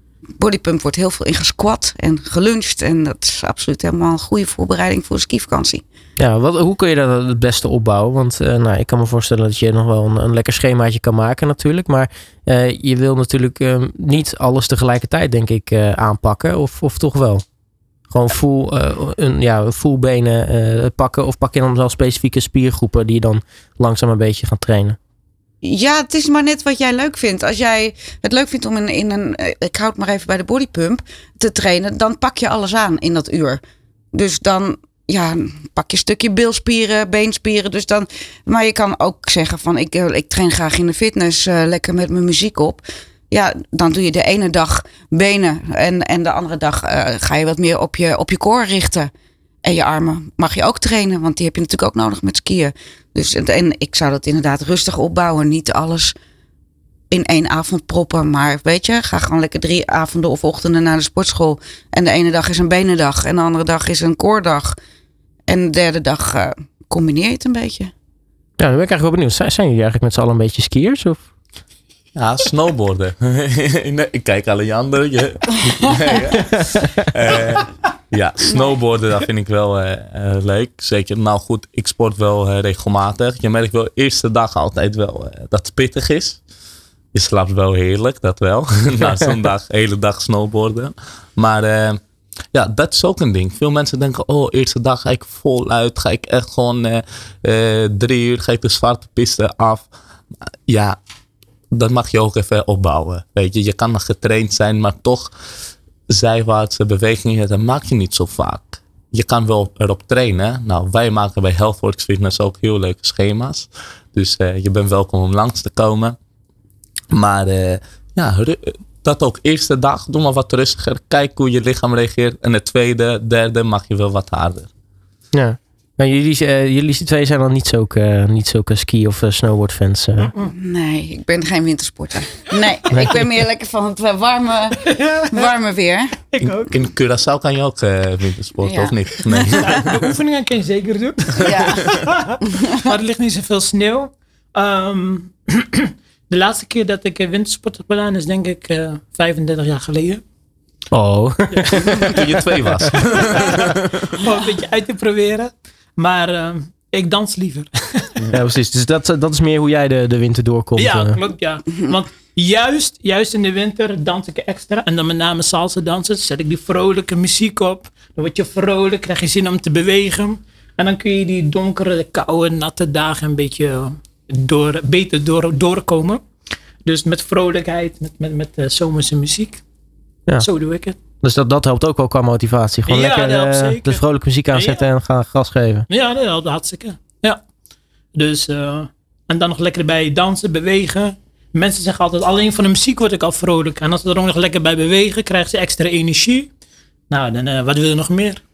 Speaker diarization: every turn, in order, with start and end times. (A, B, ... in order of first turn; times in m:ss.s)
0:00.4-0:05.8 A
0:06.2-0:17.4 B
0:18.1-0:25.0 B
0:25.6-0:33.6 A
0:34.1-0:49.1 A
0:49.6-0:56.1 A
0:57.1-1:04.8 A
1:05.5-1:07.9 A
1:08.6-1:11.2 B
1:12.2-1:26.4 C
1:27.1-1:32.0 C
1:32.5-1:39.9 C
1:40.7-1:41.0 C
1:41.7-1:45.3 C
1:46.1-1:56.2 C
1:57.1-2:04.7 C
2:05.3-2:10.3 B
2:10.2-2:10.5 D
2:10.5-2:16.2 A
2:14.8-2:15.5 D
2:16.3-2:16.7 D
2:16.4-2:20.1 C
2:18.6-2:19.6 A
2:19.5-2:30.2 D
2:21.4-2:21.9 A
2:30.9-2:32.3 B
2:31.5-2:32.1 D
2:32.0-2:34.2 C
2:33.1-2:38.3 D
2:38.3-2:41.2 B
2:40.8-2:56.2 D
2:56.8-2:59.6 D
3:00.4-3:01.0 D
3:01.2-3:05.9 B
3:02.9-3:04.0 D
3:04.5-3:04.8 D
3:05.9-3:07.4 D
3:08.1-3:16.5 D
3:17.1-3:18.4 D